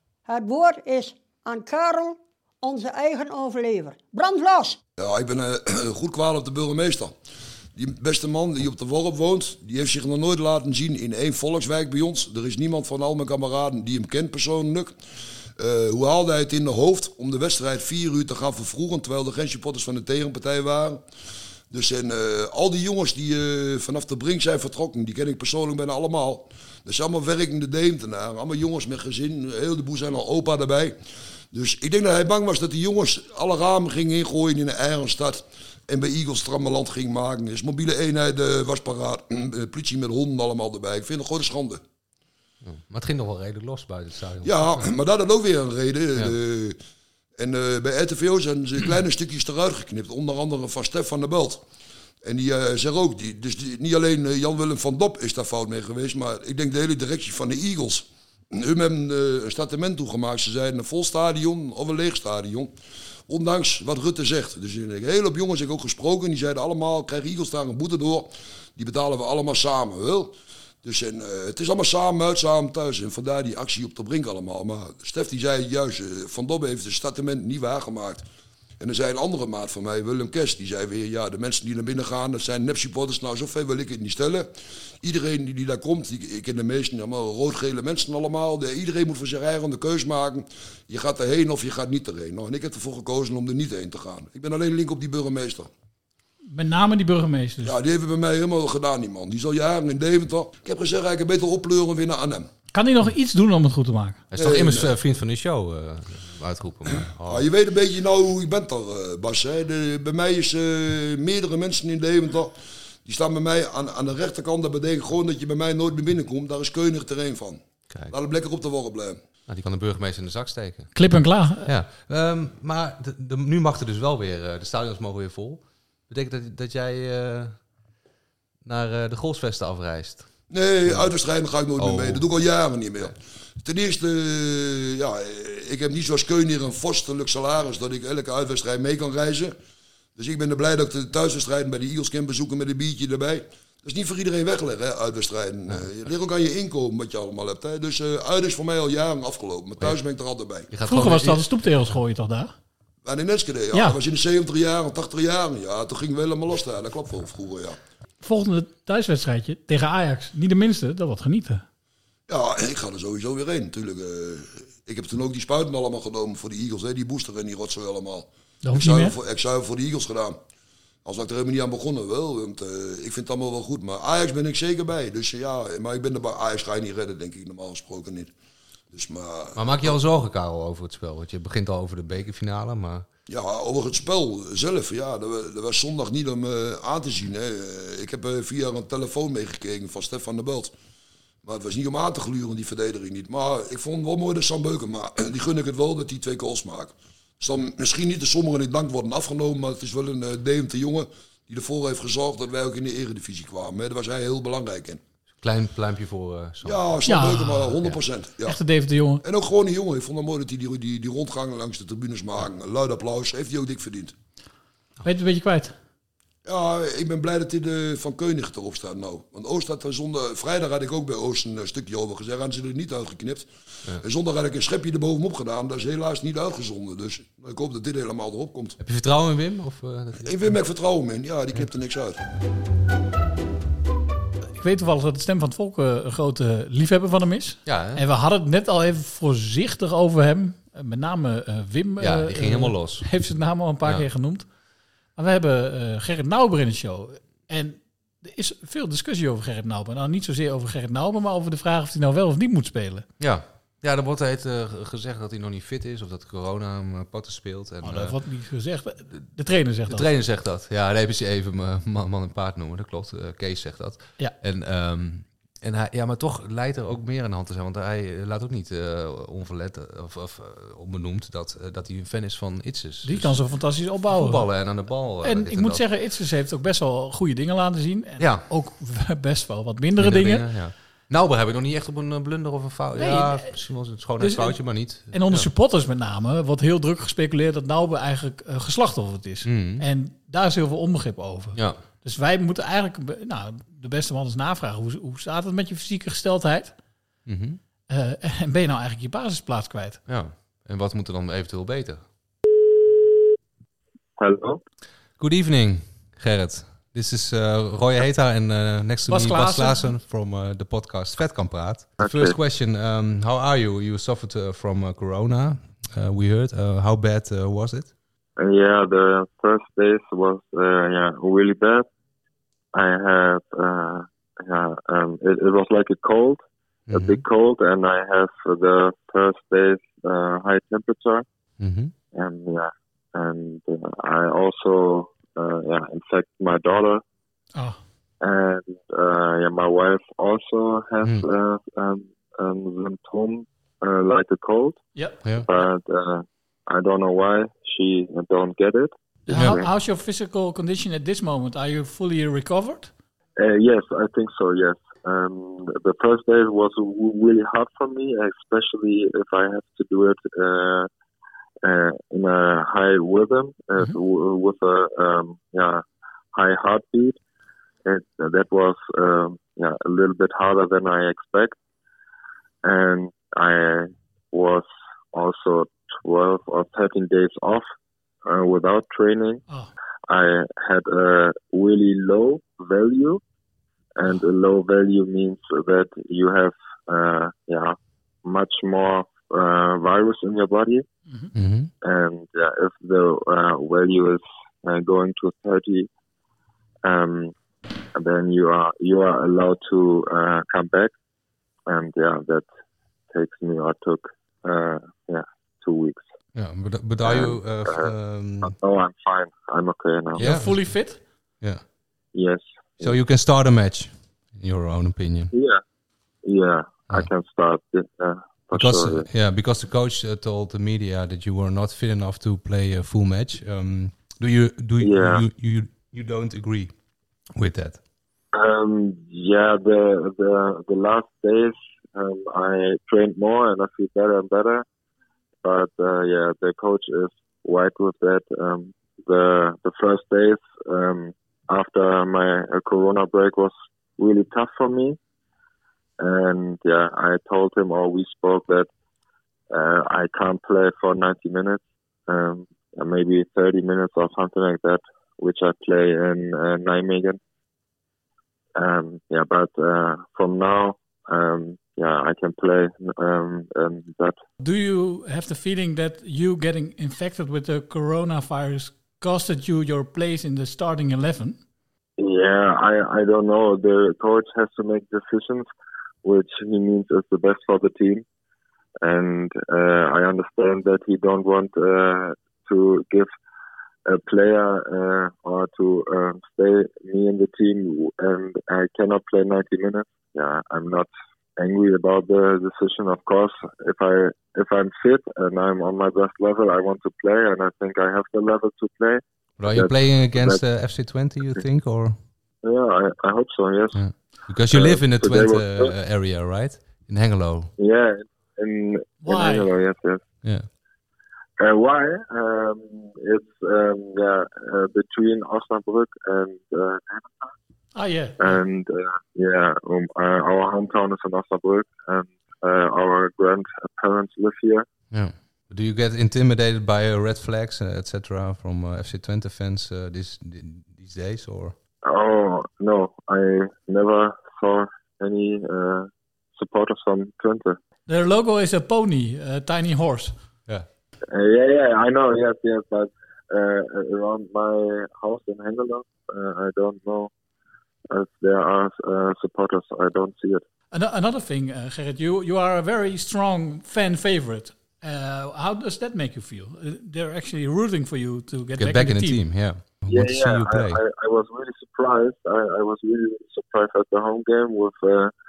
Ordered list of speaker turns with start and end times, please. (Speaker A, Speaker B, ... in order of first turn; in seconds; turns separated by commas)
Speaker A: 0.2-4.8, Speaker B: 5.0-7.1, Speaker B: 7.8-14.9, Speaker B: 15.6-21.0, Speaker B: 21.7-30.9, Speaker B: 31.5-41.8, Speaker C: 42.6-44.9, Speaker B: 44.4-46.8, Speaker B: 47.4-51.6, Speaker B: 52.2-62.7, Speaker B: 63.3-70.3, Speaker B: 70.8-78.2, Speaker B: 78.8-84.5, Speaker B: 85.0-95.7, Speaker D: 96.5-97.7, Speaker B: 97.6-102.5, Speaker D: 102.7-104.2, Speaker C: 104.3-107.5, Speaker B: 104.3-104.9, Speaker B: 107.2-112.5, Speaker B: 113.0-119.2, Speaker C: 119.5-120.9, Speaker D: 120.9-121.7, Speaker C: 121.7-127.6, Speaker C: 128.6-130.3, Speaker B: 130.5-139.5, Speaker C: 130.8-131.1, Speaker C: 131.8-132.2, Speaker B: 140.2-150.7, Speaker C: 150.7-151.5, Speaker D: 150.8-152.5, Speaker B: 153.0-157.8, Speaker D: 158.2-161.6, Speaker B: 162.3-170.4, Speaker D: 168.6-169.2, Speaker B: 171.0-178.3, Speaker B: 178.9-180.0, Speaker C: 179.5-183.1, Speaker B: 183.3-190.7, Speaker B: 191.4-205.0, Speaker C: 205.4-206.8, Speaker B: 206.6-208.6, Speaker D: 207.1-207.7, Speaker D: 208.4-209.2, Speaker B: 209.2-214.1, Speaker D: 215.0-215.7, Speaker B: 216.4-228.8, Speaker C: 228.8-230.6, Speaker B: 230.2-232.2, Speaker D: 234.6-244.4, Speaker C: 237.7-238.0, Speaker C: 242.0-243.1, Speaker D: 245.2-253.1, Speaker C: 253.2-258.1, Speaker D: 257.8-260.1, Speaker C: 259.9-273.4, Speaker D: 273.0-274.5, Speaker C: 274.1-275.8, Speaker D: 275.2-280.4, Speaker C: 278.2-278.4, Speaker C: 280.0-285.5, Speaker D: 282.9-283.6, Speaker D: 284.2-296.7, Speaker C: 289.4-289.8, Speaker C: 291.5-291.8, Speaker C: 297.2-297.6, Speaker D: 297.9-300.0, Speaker C: 300.1-302.0, Speaker E: 304.2-304.6, Speaker C: 305.2-317.9, Speaker D: 309.1-309.9, Speaker E: 312.0-312.3, Speaker E: 318.4-321.9, Speaker E: 322.7-331.2, Speaker C: 326.9-327.2, Speaker C: 331.6-331.9, Speaker E: 332.1-337.0, Speaker E: 338.2-344.8, Speaker E: 345.4-349.7, Speaker D: 349.3-352.9, Speaker C: 349.3-349.6, Speaker E: 353.4-360.9, Speaker E: 361.6-365.8, Speaker E: 366.3-367.2, Speaker E: 367.8-371.6, Speaker E: 372.6-377.7, Speaker E: 378.2-379.4, Speaker E: 380.1-383.2, Speaker E: 383.9-390.8, Speaker C: 391.3-391.7, Speaker E: 391.8-395.9, Speaker E: 396.8-397.3, Speaker E: 397.9-400.9, Speaker E: 401.7-402.5, Speaker E: 403.1-406.1, Speaker C: 406.3-408.5, Speaker E: 407.0-407.9, Speaker E: 408.4-410.3, Speaker C: 410.2-410.8, Speaker D: 410.2-411.0, Speaker E: 412.1-412.9, Speaker C: 412.8-415.3, Speaker E: 415.3-415.6, Speaker E: 416.2-419.1, Speaker C: 418.5-426.7, Speaker E: 424.8-425.2, Speaker C: 427.4-427.8, Speaker E: 428.3-434.6, Speaker E: 435.4-445.0, Speaker E: 446.0-448.7, Speaker E: 449.5-457.2, Speaker E: 458.6-464.2, Speaker D: 464.4-471.4, Speaker E: 472.0-475.5, Speaker E: 476.0-478.0, Speaker E: 478.8-483.1, Speaker E: 483.9-500.4, Speaker C: 499.4-502.0, Speaker E: 502.4-503.8, Speaker C: 503.7-507.5, Speaker E: 504.5-505.7, Speaker E: 507.6-510.0, Speaker D: 509.0-509.5, Speaker E: 511.4-517.3, Speaker D: 517.7-518.3, Speaker E: 518.2-524.7, Speaker C: 524.9-531.5, Speaker E: 531.8-537.6, Speaker D: 537.9-540.1, Speaker E: 541.1-547.1, Speaker E: 547.9-550.4, Speaker D: 550.7-559.2, Speaker C: 558.6-560.8, Speaker E: 559.9-565.1